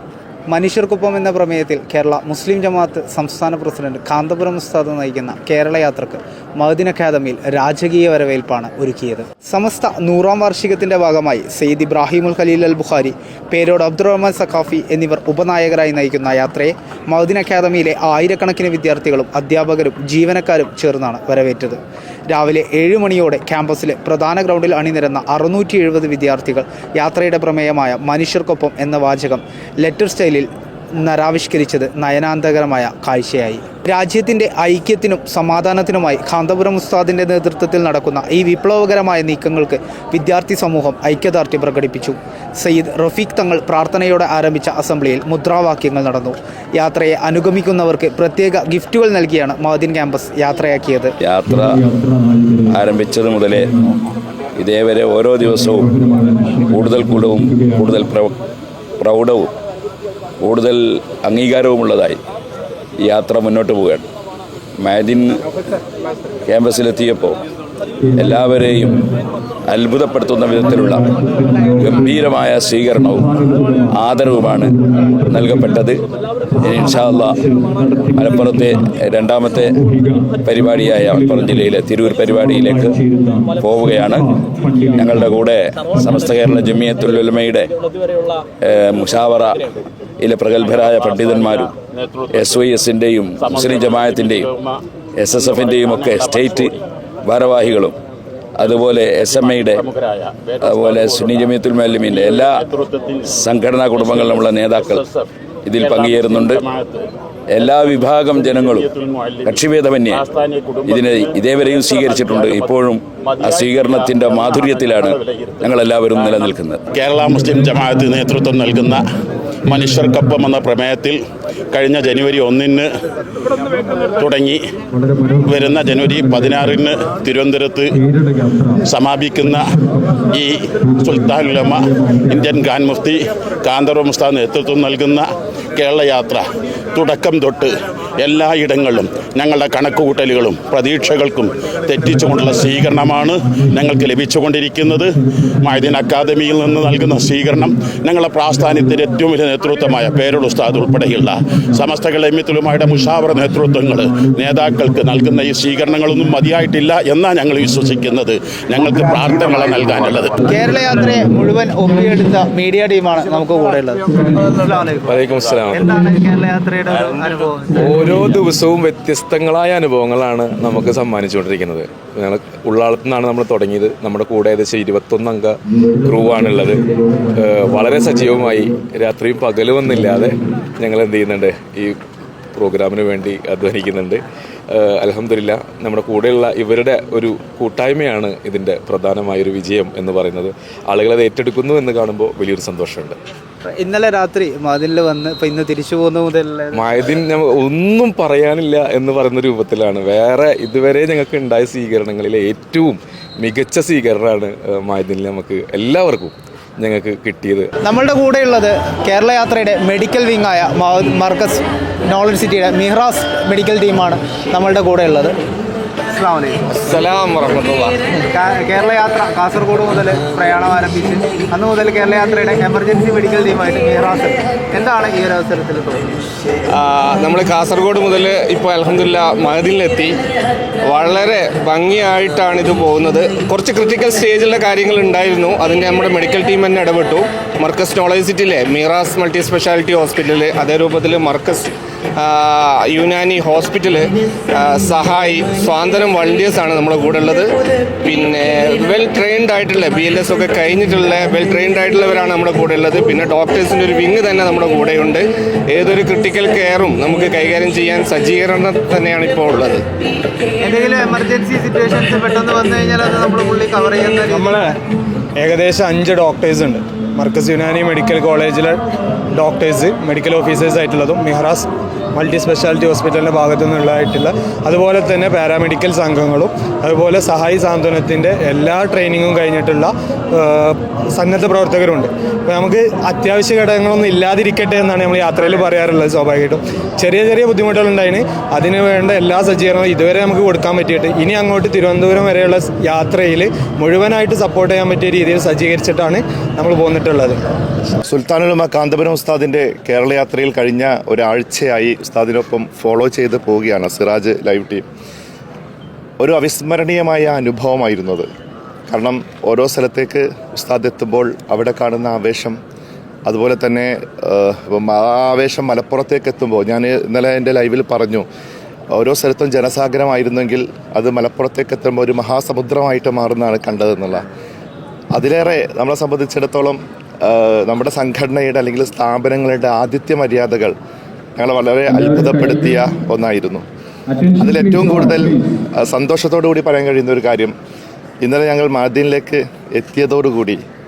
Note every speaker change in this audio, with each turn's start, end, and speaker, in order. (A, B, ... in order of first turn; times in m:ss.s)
0:00.5-0:51.1 A
0:51.2-0:51.9 B
0:52.6-0:53.7 B
0:54.6-0:58.4 B
0:59.0-0:59.5 B
1:00.4-1:02.2 B
1:03.0-1:04.1 B
1:04.8-1:05.4 B
1:06.5-1:07.4 B
1:08.2-1:09.0 B
1:09.7-1:16.0 B
1:13.5-1:13.9 C
1:16.6-1:17.4 B
1:18.1-1:19.8 B
1:20.4-1:23.0 B
1:23.1-1:23.4 C
1:23.6-1:27.7 B
1:24.5-1:25.0 C
1:28.6-1:29.7 B
1:30.2-1:31.7 B
1:31.1-1:32.5 D
1:32.3-1:34.5 B
1:33.4-1:34.8 D
1:35.2-1:38.0 B
1:35.4-1:36.8 D
1:38.6-1:39.8 B
1:39.3-1:41.5 D
1:40.6-1:42.6 B
1:42.1-1:43.3 D
1:43.3-1:45.0 B
1:44.9-1:45.3 D
1:45.6-1:46.7 B
1:45.8-1:47.1 D
1:47.5-1:48.9 B
1:48.6-1:49.6 D
1:49.4-1:50.2 B
1:50.1-1:51.3 D
1:50.8-1:56.9 B
1:52.0-1:52.6 D
1:53.3-1:55.7 D
1:56.9-1:59.0 D
1:59.6-2:02.9 D
2:04.2-2:08.0 D
2:08.7-2:40.4 D
2:40.4-2:45.2 A
2:45.0-2:46.0 E
2:45.7-2:48.0 A
2:46.9-2:47.5 F
2:47.8-3:02.0 E
3:02.5-3:13.2 E
3:13.6-3:16.9 A
3:16.7-3:27.7 E
3:27.8-3:35.4 A
3:36.1-3:36.7 A
3:36.7-3:38.0 F
3:38.1-3:46.2 A
3:46.7-3:50.2 F
3:50.9-4:07.5 F
4:08.0-4:19.8 F
4:20.6-4:24.7 A
4:24.3-4:24.7 C
4:25.4-4:28.8 C
4:29.3-4:57.4 C
4:58.0-5:04.8 G
5:06.2-5:08.3 G
5:08.9-5:12.6 G
5:13.3-5:18.2 G
5:18.9-5:24.2 G
5:25.1-5:30.7 G
5:31.4-5:33.6 G
5:34.4-5:37.6 G
5:38.2-5:40.6 G